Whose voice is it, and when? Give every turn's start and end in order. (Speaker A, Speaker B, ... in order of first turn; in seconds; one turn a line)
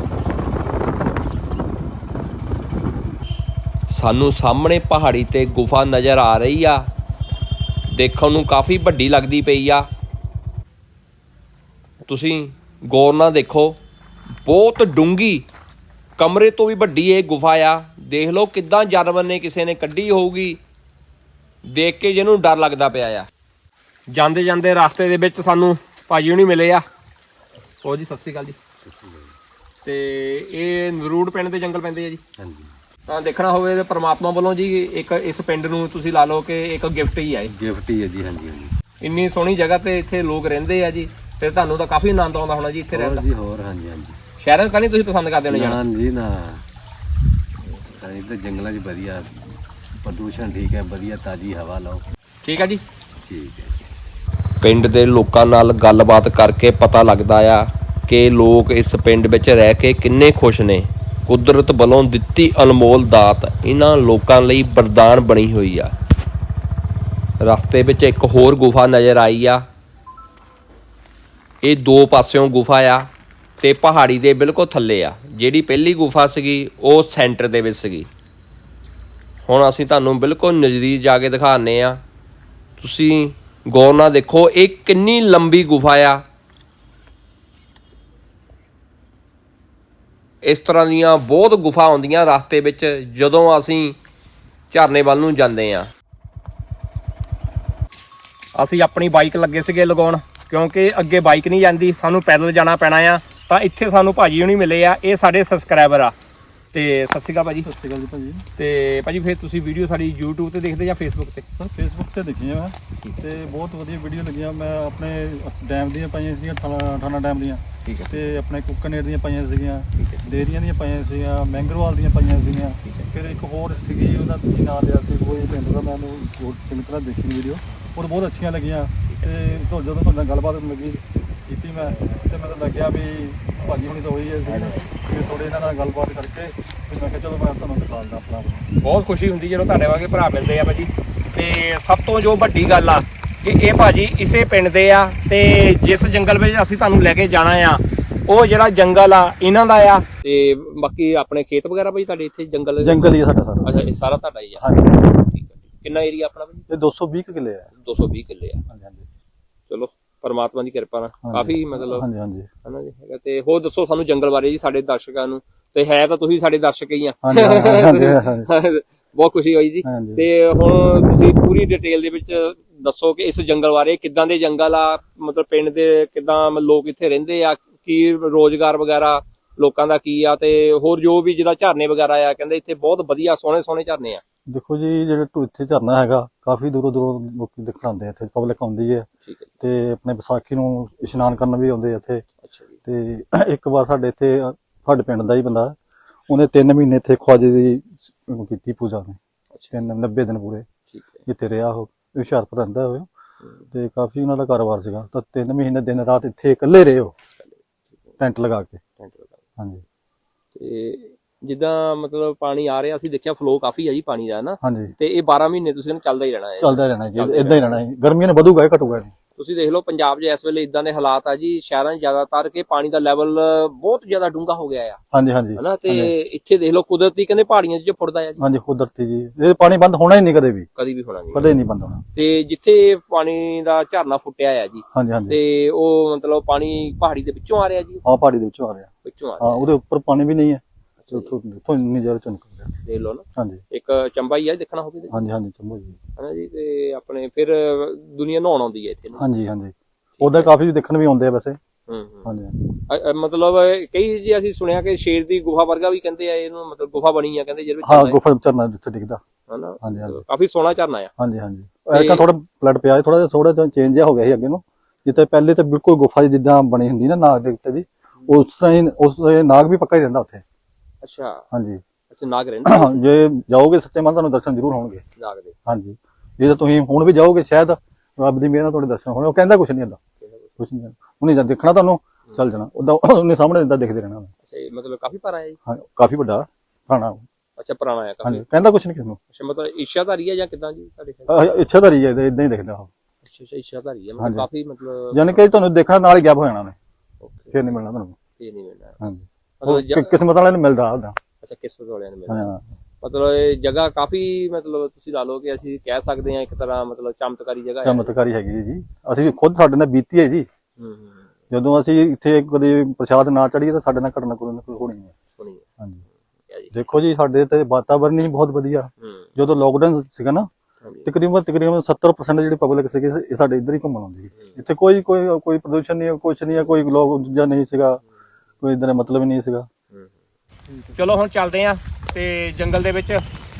Speaker A: 3.9-6.8
Speaker A: 7.9-9.9
Speaker A: 12.1-13.8
Speaker A: 14.4-15.5
Speaker A: 16.2-20.6
Speaker A: 21.6-23.3
Speaker A: 24.1-26.8
Speaker A: 27.8-28.6
Speaker B: 28.8-29.4
Speaker A: 29.8-32.2
Speaker B: 32.4-32.8
Speaker A: 33.1-37.5
Speaker B: 37.5-38.7
Speaker A: 39.0-43.3
Speaker B: 42.9-44.2
Speaker A: 44.4-45.8
Speaker B: 45.5-46.6
Speaker B: 47.7-52.0
Speaker A: 52.4-52.8
Speaker B: 53.2-53.8
Speaker A: 54.6-65.9
Speaker A: 67.4-69.6
Speaker A: 71.6-73.1
Speaker A: 73.6-78.1
Speaker A: 79.5-82.0
Speaker A: 82.8-86.2
Speaker A: 90.4-94.0
Speaker A: 94.7-95.9
Speaker A: 98.5-106.1
Speaker A: 106.7-107.7
Speaker C: 107.7-108.5
Speaker A: 108.6-111.5
Speaker C: 111.6-138.7
Speaker A: 113.0-113.5
Speaker A: 117.8-118.4
Speaker A: 120.0-120.3
Speaker A: 129.1-129.6
Speaker A: 134.5-134.8
Speaker A: 138.8-153.1
Speaker C: 152.8-153.7
Speaker A: 153.6-156.7
Speaker C: 154.6-155.1
Speaker C: 156.7-157.7
Speaker A: 157.8-158.6
Speaker C: 158.7-159.1
Speaker A: 159.7-162.1
Speaker C: 161.2-162.5
Speaker A: 162.7-184.2
Speaker C: 167.2-168.5
Speaker C: 169.8-170.3
Speaker C: 184.5-189.1
Speaker C: 189.6-192.2
Speaker A: 192.5-192.7
Speaker C: 192.8-195.8
Speaker C: 196.3-199.2
Speaker A: 199.5-199.8
Speaker C: 199.7-200.7
Speaker A: 200.9-201.2
Speaker C: 201.3-203.1
Speaker C: 203.7-207.1
Speaker C: 208.2-208.8
Speaker A: 209.0-209.4
Speaker C: 209.6-209.8
Speaker A: 210.6-217.8
Speaker C: 214.6-214.9
Speaker C: 216.6-219.1
Speaker A: 219.4-225.0
Speaker C: 225.1-226.1
Speaker A: 225.6-228.4
Speaker C: 228.4-230.7
Speaker A: 230.8-231.5
Speaker C: 231.3-232.1
Speaker A: 232.2-238.0
Speaker C: 234.9-235.4
Speaker C: 238.0-238.9
Speaker A: 239.1-239.7
Speaker C: 239.4-242.7
Speaker A: 241.0-241.3
Speaker A: 242.8-245.2
Speaker C: 245.1-246.0
Speaker A: 246.2-249.3
Speaker C: 249.2-251.6
Speaker A: 250.2-250.5
Speaker A: 251.9-252.3
Speaker C: 252.2-252.7
Speaker A: 252.9-258.2
Speaker C: 257.8-259.2
Speaker A: 259.5-261.1
Speaker C: 259.8-260.2
Speaker C: 261.2-270.4
Speaker A: 261.9-262.3
Speaker A: 271.0-271.4
Speaker C: 271.5-271.8
Speaker A: 272.1-273.0
Speaker C: 272.6-275.0
Speaker A: 275.2-275.5
Speaker C: 275.7-280.0
Speaker C: 280.6-284.3
Speaker A: 284.5-285.6
Speaker C: 285.7-287.3
Speaker A: 287.6-288.5
Speaker C: 288.2-289.2
Speaker A: 289.3-291.5
Speaker C: 291.3-292.9
Speaker A: 293.2-295.4
Speaker C: 294.2-294.5
Speaker C: 295.1-296.8
Speaker A: 297.2-297.6
Speaker C: 297.5-298.2
Speaker A: 298.4-299.0
Speaker C: 299.0-301.2
Speaker A: 299.6-300.2
Speaker A: 301.4-302.5
Speaker C: 302.3-302.6
Speaker A: 303.0-308.2
Speaker C: 307.8-310.5
Speaker A: 310.8-311.2
Speaker C: 311.5-315.1
Speaker A: 315.4-315.6
Speaker C: 315.8-316.1
Speaker C: 316.7-320.5
Speaker A: 319.0-319.3
Speaker A: 320.8-321.1
Speaker C: 321.1-328.0
Speaker C: 328.6-329.7
Speaker C: 330.7-331.2
Speaker A: 331.0-333.2